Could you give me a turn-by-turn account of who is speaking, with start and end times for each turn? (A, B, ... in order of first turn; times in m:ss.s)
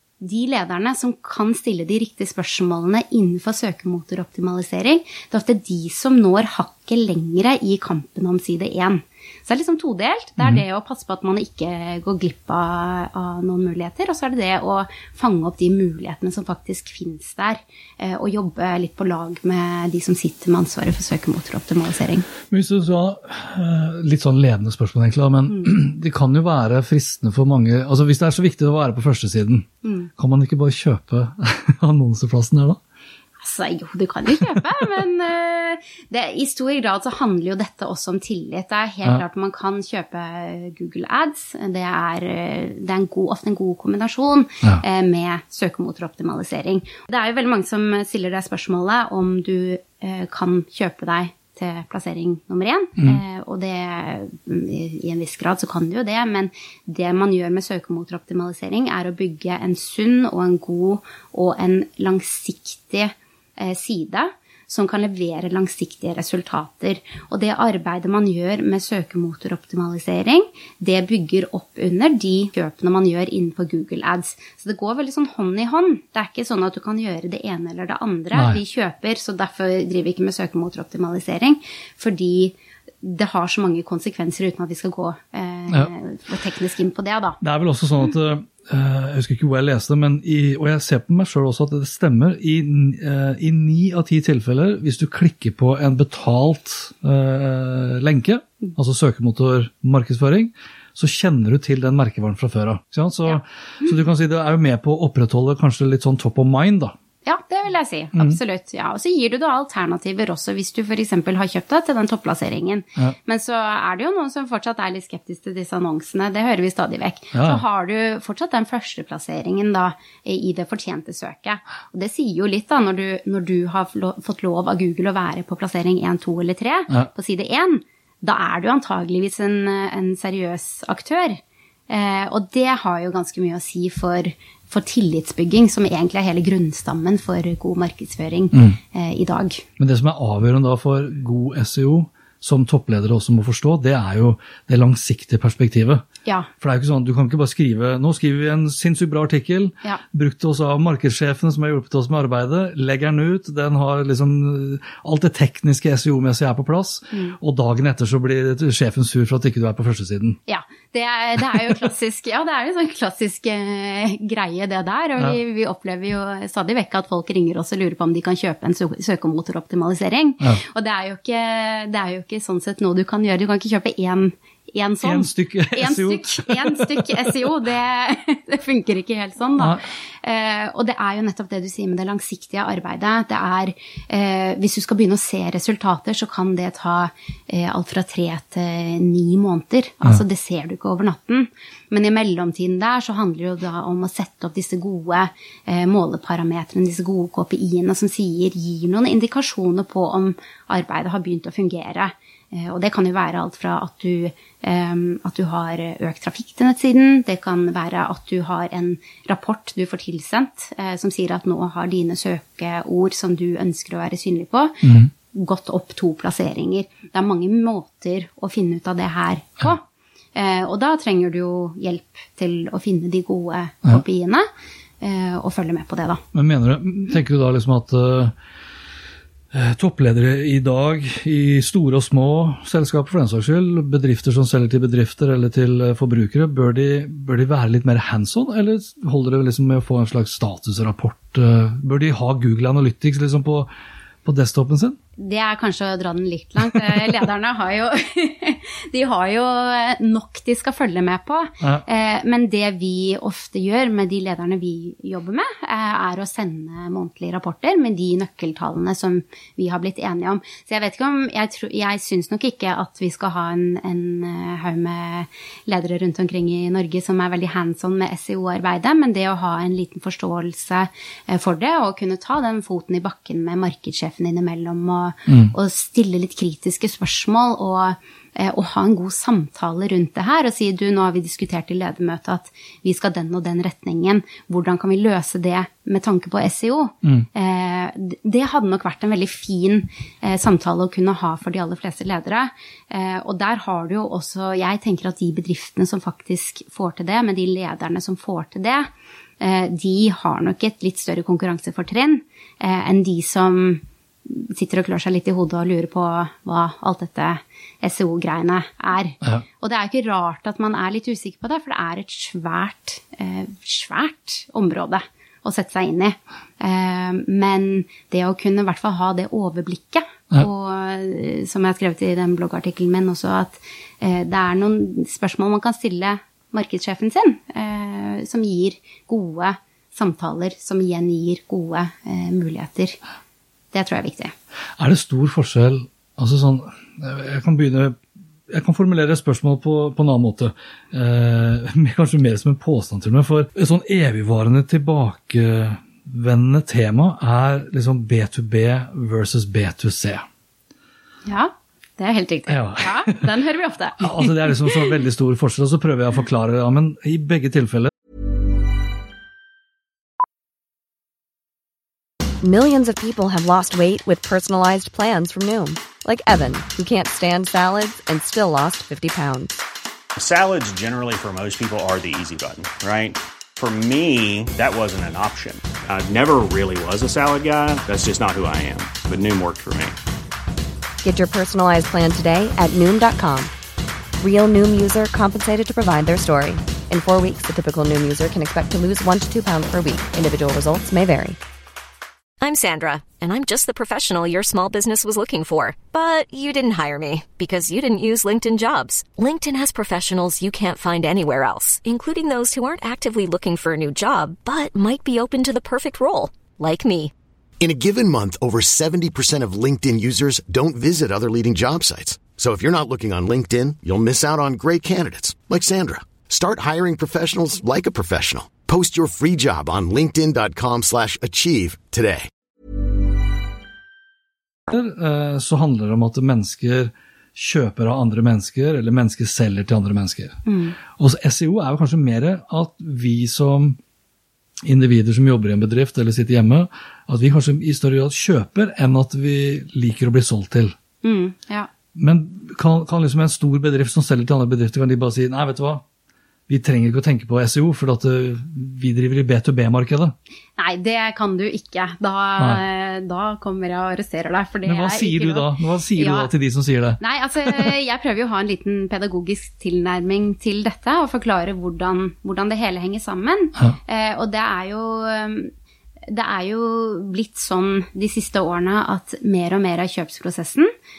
0:00.2-0:22.3 A
0:22.4-0:29.7 B
0:29.8-0:30.1 A
0:30.2-0:32.8 B
0:33.4-1:27.4 A
1:18.3-1:18.6 B
1:27.4-1:46.9 B
1:43.2-1:44.0 A
1:47.2-2:19.6 A
1:48.1-1:48.4 B
1:57.3-1:57.6 B
2:18.5-2:18.8 B
2:19.8-2:26.0 B
2:26.6-2:40.4 B
2:37.1-2:37.4 A
2:40.5-3:39.8 A
2:55.0-2:57.3 B
2:59.6-2:59.8 B
3:34.8-3:35.1 B
3:40.3-3:44.4 A
3:45.0-3:46.2 A
3:46.3-3:48.3 B
3:49.5-4:03.7 B
4:04.2-4:05.0 B
4:05.2-5:33.0 A
4:35.3-4:35.5 B
5:33.7-5:34.3 A
5:34.8-5:50.2 B
5:51.2-5:54.9 A
5:52.5-5:53.3 B
5:54.0-5:57.9 B
6:02.4-6:09.6 C
6:10.2-6:19.9 D
6:21.0-6:23.5 C
6:24.2-6:31.4 C
6:32.4-6:47.1 E
6:47.6-7:02.3 F
7:04.7-7:10.4 B
7:10.4-7:10.8 A
7:10.9-7:13.8 B
7:14.6-7:20.8 B
7:21.0-7:21.7 A
7:21.9-7:25.8 B
7:26.5-7:30.2 B
7:30.6-7:36.3 A
7:32.4-7:32.6 B
7:34.6-7:37.7 B
7:37.0-7:45.5 A
7:46.1-7:50.7 A